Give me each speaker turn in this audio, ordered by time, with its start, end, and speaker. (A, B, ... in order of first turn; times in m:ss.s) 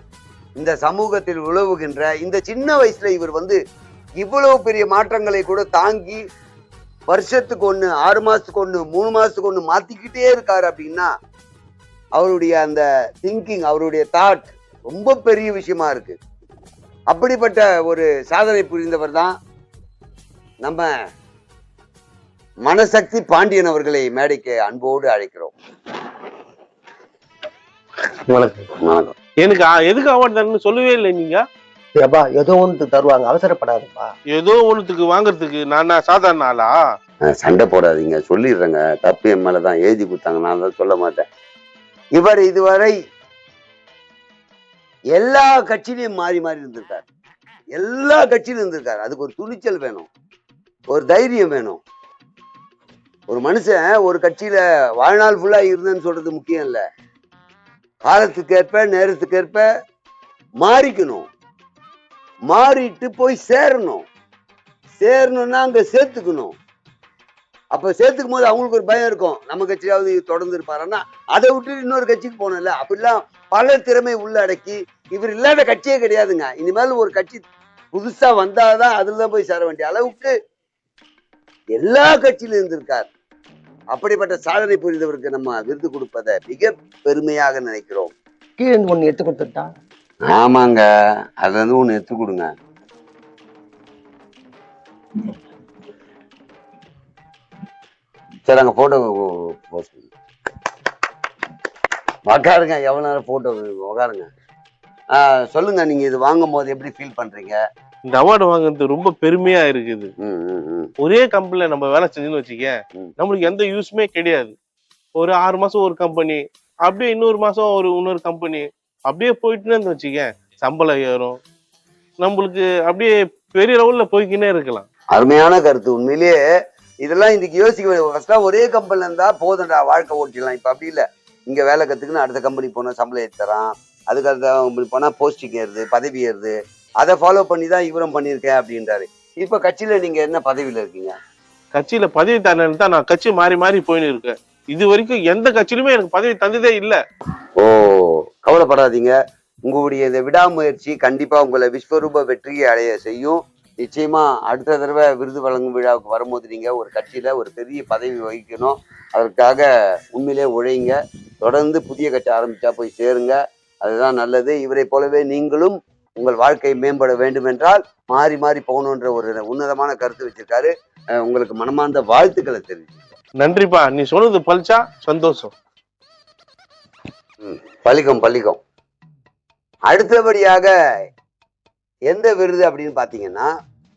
0:00.6-0:03.6 A
0:04.2-0:06.2 A
0:07.1-0:11.1 A
0:12.2-0:16.2 A
0:17.1-0:19.3 A
0:20.6-0:20.9 A
0:22.6-0:25.5 A
0:28.8-0:29.1 A
0:29.4-0:31.4 B
0:32.0-0:34.1 C
0:34.3-0:36.8 B
0:37.3-0:41.2 A
0:42.1-0:42.9 A
0:45.1-0:47.0 A
0:47.8-0:50.1 A
0:50.9-0:51.8 A
0:53.3-0:56.8 A
0:58.0-0:59.6 A
1:00.6-1:01.3 A
1:02.5-1:04.0 A
1:05.0-1:06.6 A
1:07.7-1:20.3 A
1:21.8-1:23.1 A
1:23.9-1:28.1 A
1:28.6-1:29.7 C
1:30.3-1:30.8 A
1:31.4-1:32.5 A
1:38.4-1:40.1 A
1:42.3-1:44.3 A
1:45.1-1:47.6 A
1:48.0-1:50.1 B
1:50.2-1:50.9 A
1:51.0-1:54.5 B
1:55.2-2:01.4 B
2:02.2-2:04.9 B
2:05.1-2:06.4 A
2:07.0-2:21.1 A
2:21.7-2:27.0 B
2:27.6-2:29.1 A
2:29.6-2:50.7 A
2:51.2-2:53.0 A
2:53.4-2:55.5 B
2:57.4-2:58.6 A
2:59.9-3:00.7 A
3:02.1-3:03.5 A